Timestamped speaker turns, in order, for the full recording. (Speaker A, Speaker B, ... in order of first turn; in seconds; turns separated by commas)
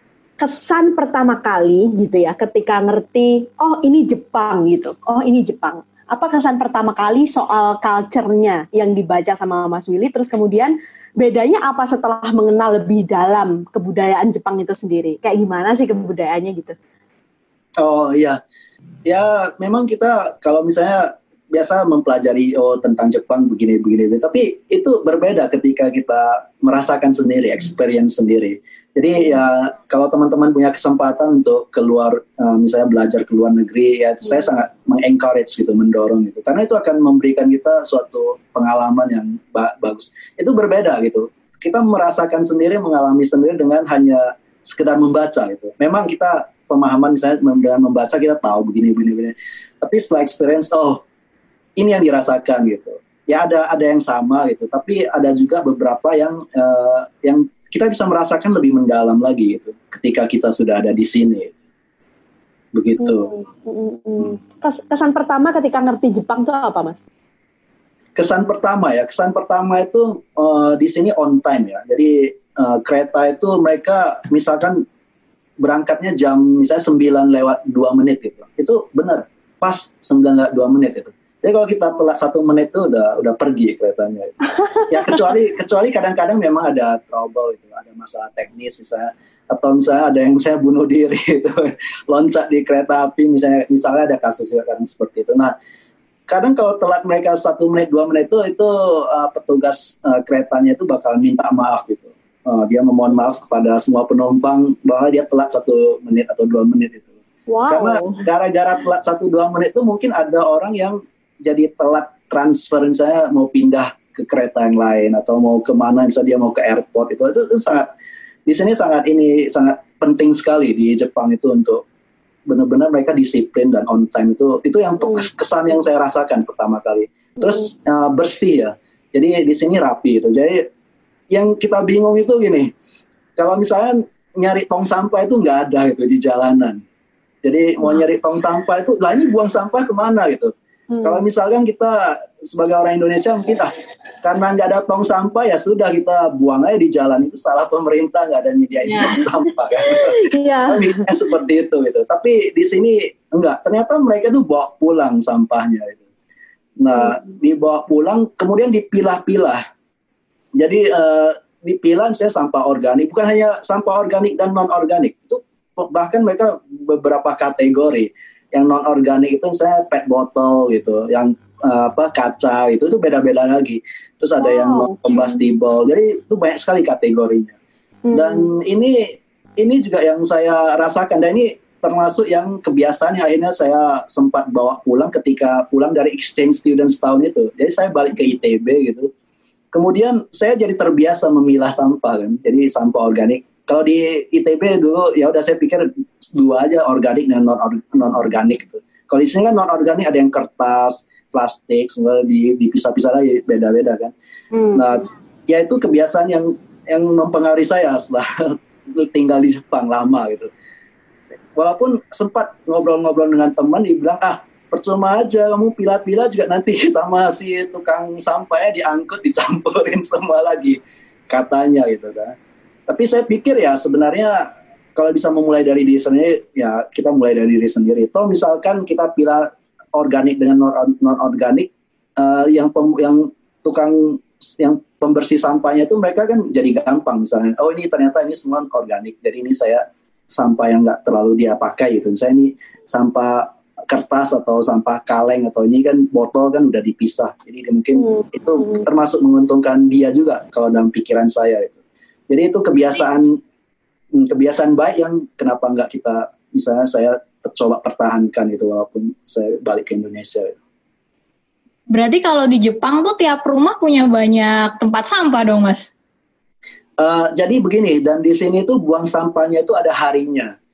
Speaker A: 0.4-16.8, Speaker B: 17.8-18.4, Speaker B: 19.1-51.0, Speaker B: 51.8-61.5, Speaker B: 62.7-63.3, Speaker A: 63.0-67.0, Speaker B: 68.2-74.8, Speaker B: 75.6-84.3, Speaker B: 84.9-95.5, Speaker B: 96.3-107.1, Speaker A: 107.5-108.3, Speaker B: 107.7-117.9, Speaker B: 118.5-121.8, Speaker B: 122.5-130.7, Speaker B: 131.3-132.7, Speaker B: 133.4-136.8, Speaker B: 137.4-140.5, Speaker A: 140.9-141.2, Speaker B: 141.0-143.7, Speaker B: 144.2-156.0, Speaker A: 149.8-151.1, Speaker B: 156.8-159.6, Speaker B: 160.6-177.6, Speaker A: 174.4-175.3, Speaker A: 178.1-178.5, Speaker B: 178.1-189.1, Speaker B: 189.7-204.1, Speaker A: 204.5-204.8, Speaker B: 204.7-210.5, Speaker B: 211.6-222.3, Speaker B: 222.9-251.8, Speaker A: 248.0-248.9, Speaker B: 252.3-253.3, Speaker B: 254.1-260.6, Speaker C: 261.9-265.9, Speaker B: 267.0-270.6